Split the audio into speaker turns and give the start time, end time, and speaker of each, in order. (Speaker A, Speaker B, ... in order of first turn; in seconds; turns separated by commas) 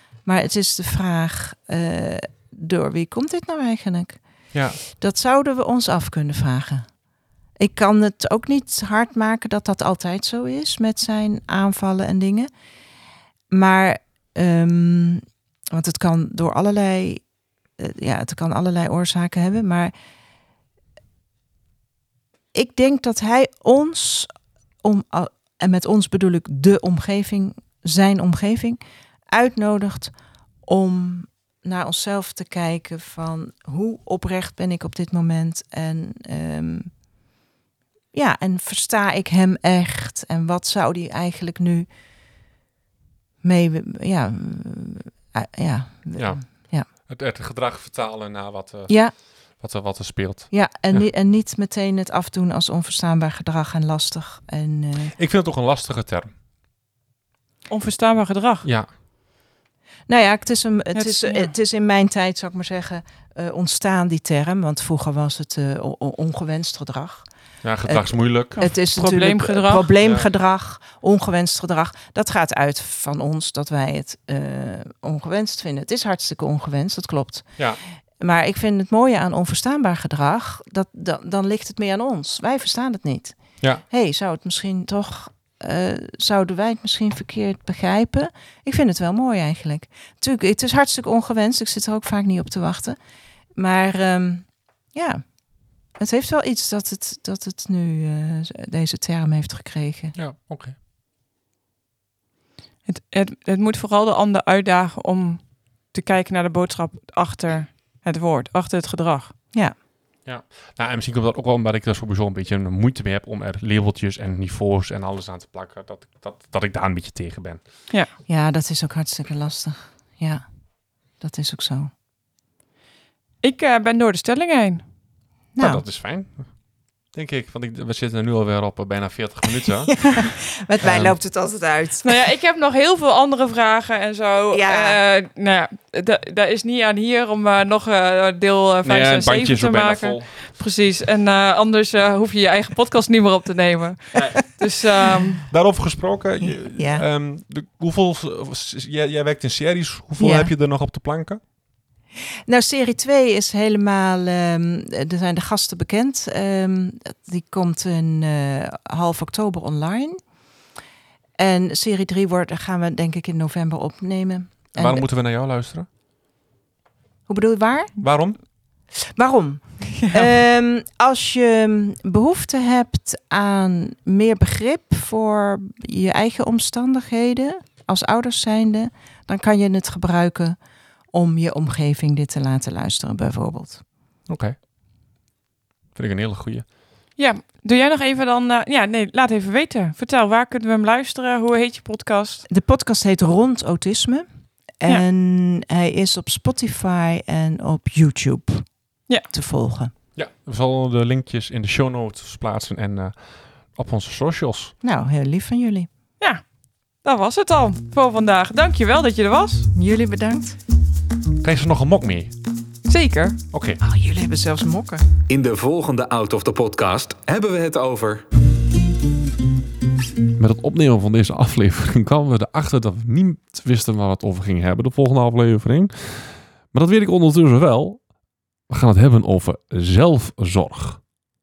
Speaker A: 0.2-7.0, Speaker B: 4.5-4.8, Speaker A: 7.6-12.5, Speaker A: 13.5-17.2, Speaker A: 17.8-19.9, Speaker A: 22.5-24.3, Speaker A: 24.8-37.0, Speaker A: 38.1-41.9, Speaker A: 43.4-46.9, Speaker B: 46.1-51.1, Speaker A: 48.9-49.2, Speaker A: 50.5-55.1, Speaker B: 55.1-56.3, Speaker C: 57.7-58.6, Speaker B: 58.6-58.9, Speaker A: 60.1-67.3, Speaker C: 60.9-61.5, Speaker B: 67.6-68.6, Speaker A: 67.8-77.6, Speaker C: 68.5-69.9, Speaker B: 70.0-70.3, Speaker A: 78.2-93.0, Speaker A: 93.5-100.2, Speaker B: 100.1-100.8, Speaker C: 102.8-109.3, Speaker B: 110.2-117.7, Speaker A: 118.3-121.9, Speaker C: 123.4-124.8, Speaker A: 125.5-125.8, Speaker B: 125.6-131.2, Speaker A: 130.0-132.1, Speaker C: 132.0-145.4, Speaker A: 134.5-135.0, Speaker B: 138.8-140.3, Speaker B: 144.1-144.4, Speaker B: 145.5-151.4, Speaker A: 146.4-147.0, Speaker A: 150.2-150.5, Speaker A: 152.5-160.2, Speaker A: 161.4-165.0, Speaker B: 164.7-165.9, Speaker A: 167.2-168.5, Speaker B: 168.0-168.4, Speaker A: 169.1-183.8, Speaker C: 170.0-170.3, Speaker B: 184.3-184.6, Speaker B: 185.9-186.7, Speaker C: 187.2-192.4, Speaker A: 192.5-194.2, Speaker A: 194.8-199.9, Speaker B: 200.1-204.7, Speaker A: 204.8-205.9, Speaker C: 206.2-209.7, Speaker A: 209.7-210.6, Speaker B: 211.4-212.3, Speaker C: 212.9-213.4, Speaker B: 213.5-213.8, Speaker A: 213.8-215.0, Speaker D: 215.3-218.2, Speaker B: 220.4-231.0